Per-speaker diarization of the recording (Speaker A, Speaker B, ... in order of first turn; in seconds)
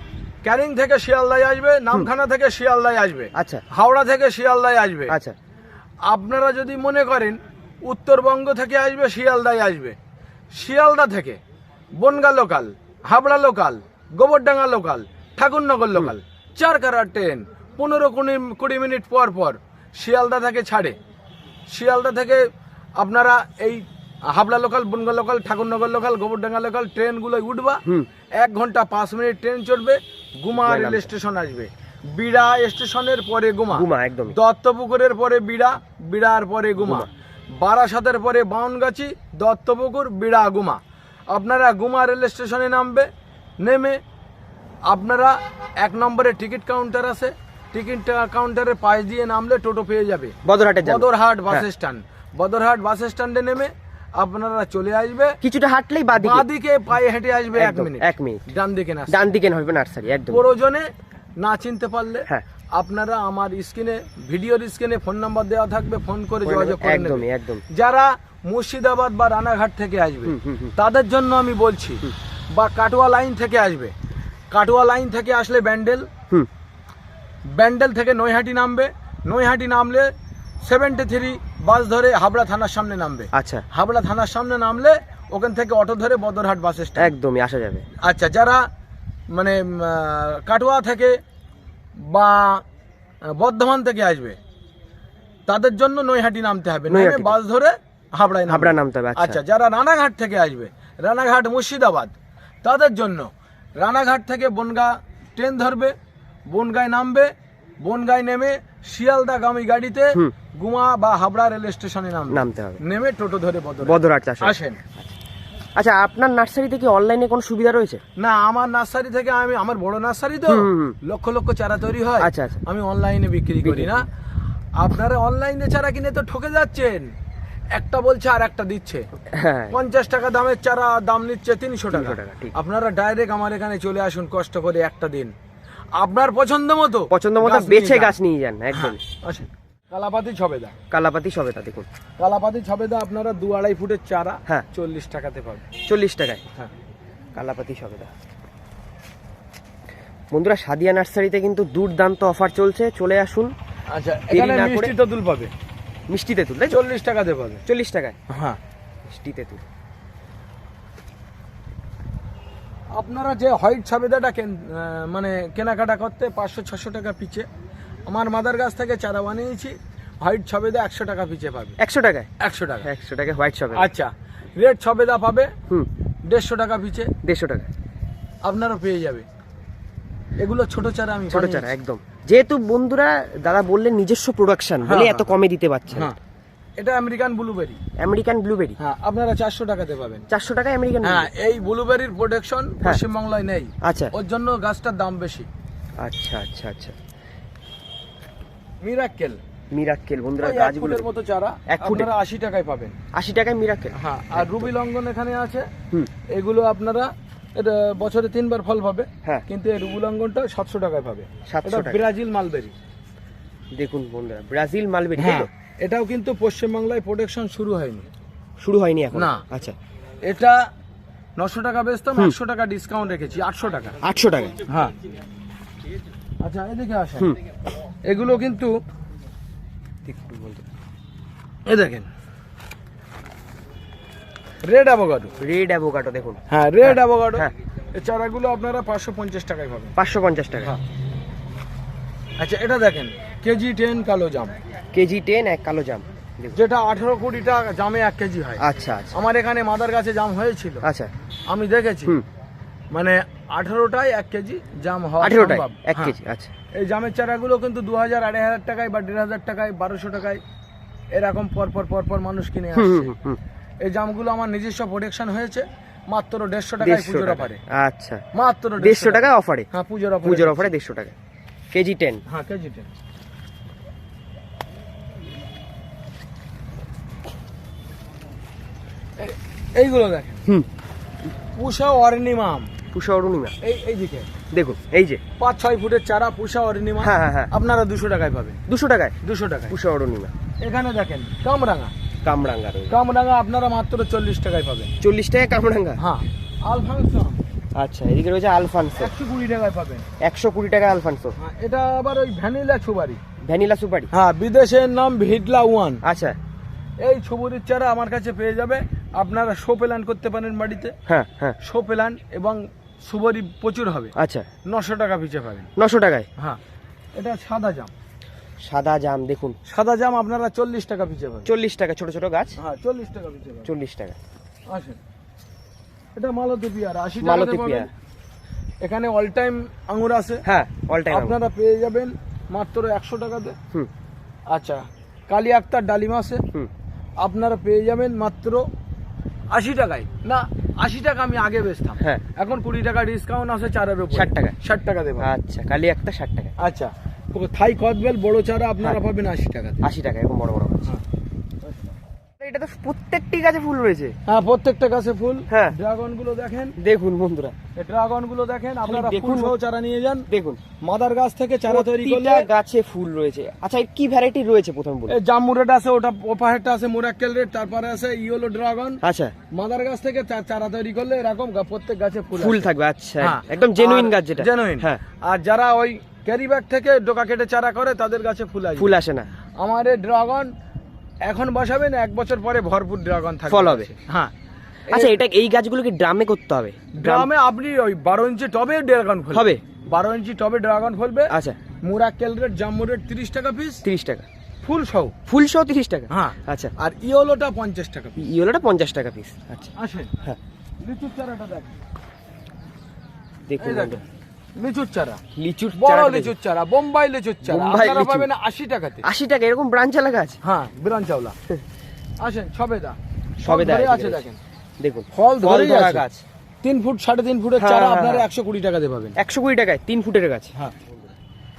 Speaker A: 0.5-5.2, 6.1-10.0, 10.5-11.4, 12.0-21.0, 21.7-22.4, 23.0-27.8, 28.4-40.8, 41.3-43.1, 43.6-44.0, 44.9-55.4, 56.2-59.3, 60.3-60.9, 61.4-73.9, 74.5-76.1, 77.5-80.1, 80.7-87.1, 88.0-88.7, 89.3-91.2, 92.1-92.6, 93.2-94.4, 95.5-106.0, 106.5-114.8, 118.2-124.1, 124.8-127.1, 127.7-129.1, 129.7-135.3, 136.0-138.2, 138.7-140.8, 142.2-145.7, 153.9-155.5, 156.7-157.6, 158.3-158.6, 163.0-167.5, 168.1-171.8, 172.4-172.9, 173.7-175.5, 176.3-177.1, 178.4-179.2, 180.4-181.8, 184.8-185.3, 186.8-187.8, 188.8-190.3, 191.0-195.5, 198.8-199.4, 200.4-203.0, 203.9-205.7, 206.3-212.8, 215.2-218.1, 219.1-219.4, 220.2-220.7, 221.4-224.0, 224.7-224.9, 226.4-227.4, 228.1-228.7, 231.7-232.1, 234.6-235.3, 236.5-240.0, 242.4-244.6, 246.5-250.9, 251.5-252.2, 252.9-256.2, 256.7-260.4, 261.1-263.1, 263.8-267.6, 268.3-270.7, 272.3-272.9, 279.2-280.4, 281.6-282.7, 283.6-284.3, 285.4-288.6, 289.2-289.8, 290.6-291.9, 292.9-294.9, 296.0-297.4, 299.0-300.1, 301.4-303.2, 304.1-306.0, 307.0-310.9, 311.6-314.1, 314.6-315.7, 317.1-317.9, 319.7-321.5, 322.6-323.7, 324.7-325.0, 326.2-327.9, 328.8-330.4, 331.1-333.6, 334.5-336.4, 337.2-338.7, 339.5-345.3, 346.6-349.9, 351.6-351.9, 354.3-356.8, 357.8-360.3, 360.8-362.5, 365.1-372.6, 373.2-378.9, 379.6-380.5, 381.2-384.3, 384.9-385.2, 386.9-393.8, 394.6-395.1, 396.1-398.2, 399.8-400.1, 400.8-401.7, 403.6-404.0, 404.6-405.2, 405.7-409.1, 410.4-411.4, 412.2-414.4, 415.1-416.0, 416.6-419.2
Speaker B: 3.4-3.6, 5.1-5.3, 30.6-31.1, 33.7-34.4, 36.8-37.1, 50.5-51.6, 55.4-56.5, 57.5-58.4, 59.1-60.4, 66.5-67.6, 70.3-70.7, 83.3-83.7, 87.0-87.9, 96.9-97.4, 98.5-99.4, 112.3-112.8, 113.8-115.1, 115.8-118.0, 120.5-121.0, 122.2-122.6, 123.6-124.0, 129.3-129.8, 131.9-132.5, 137.1-139.0, 140.9-141.9, 145.8-146.4, 147.3-148.1, 150.3-153.5, 154.3-154.9, 156.1-156.8, 157.7-158.2, 159.1-159.7, 171.8-172.3, 172.8-173.9, 177.2-177.7, 181.3-186.1, 188.0-188.8, 190.3-191.3, 193.8-194.1, 196.0-197.0, 199.7-201.1, 201.7-202.1, 203.1-204.7, 211.5-212.0, 213.7-215.5, 218.6-219.8, 224.0-224.6, 230.1-230.7, 235.4-237.5, 240.0-240.7, 244.9-246.6, 248.6-249.2, 250.8-251.1, 255.2-256.5, 262.8-263.4, 266.8-268.2, 268.8-269.7, 270.2-271.1, 271.7-272.2, 282.9-283.6, 284.5-285.2, 287.0-287.5, 288.7-289.2, 289.7-290.3, 292.2-293.0, 295.0-296.0, 297.8-299.1, 300.2-301.4, 303.4-304.1, 306.0-306.4, 311.1-311.6, 314.2-314.5, 315.8-316.3, 318.6-319.6, 321.5-322.6, 323.7-324.2, 327.2-327.9, 330.4-331.4, 344.1-344.6, 345.2-346.5, 349.8-350.9, 352.4-354.1, 355.5-355.8, 356.8-357.6, 358.9-359.6, 360.3-360.6, 361.7-365.2, 369.0-369.4, 372.4-375.0, 378.8-379.3, 383.5-383.9, 384.9-387.3, 389.3-389.6, 391.3-391.6, 393.8-394.3, 395.3-396.7, 398.2-400.4, 403.5-404.0, 405.4-406.3, 407.4-408.3, 409.0-410.4, 413.4-414.2, 414.8-416.2, 417.6-418.3, 419.2-421.1